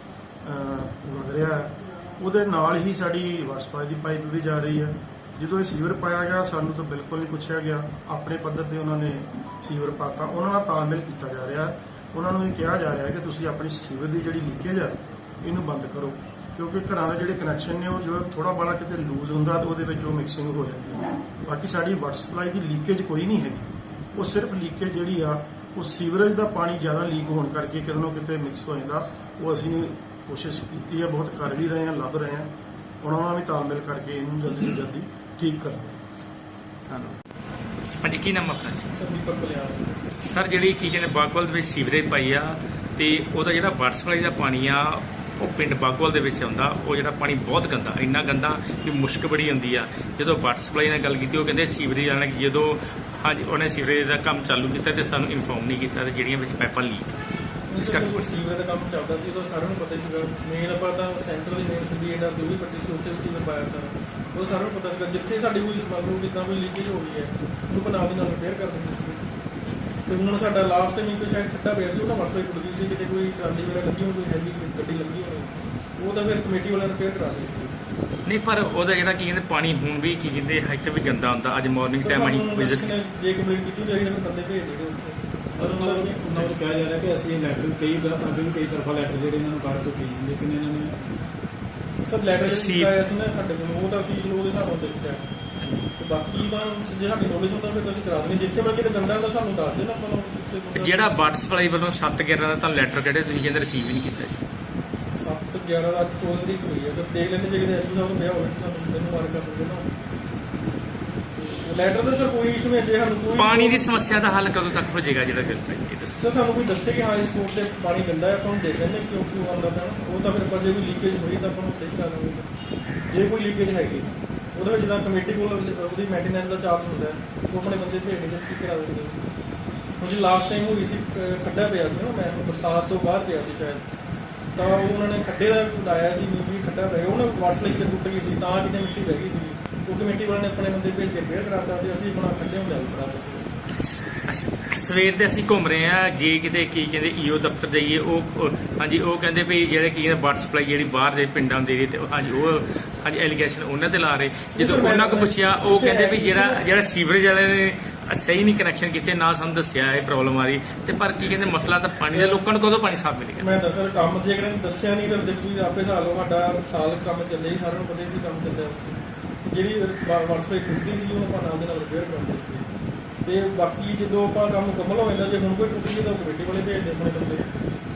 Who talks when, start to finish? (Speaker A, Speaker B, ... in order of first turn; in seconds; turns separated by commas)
Speaker A: 0.4-32.5, Speaker A: 33.0-36.0, Speaker B: 36.9-37.1, Speaker B: 38.0-38.9, Speaker C: 38.9-39.9, Speaker B: 40.2-57.2, Speaker C: 57.7-69.2, Speaker B: 57.8-58.2, Speaker C: 70.1-77.8, Speaker B: 78.2-83.0, Speaker C: 82.0-86.3, Speaker D: 85.5-91.0, Speaker C: 92.0-95.2, Speaker B: 92.4-93.0, Speaker B: 95.6-95.9, Speaker C: 96.0-101.3, Speaker B: 100.7-104.3, Speaker C: 105.2-109.9, Speaker C: 111.3-114.2, Speaker B: 113.3-116.2, Speaker C: 116.2-122.5, Speaker C: 123.1-129.2, Speaker C: 130.0-133.8, Speaker C: 134.6-143.5, Speaker B: 143.8-163.6, Speaker C: 154.5-156.7, Speaker C: 162.1-162.4, Speaker C: 163.4-172.7, Speaker C: 173.2-177.5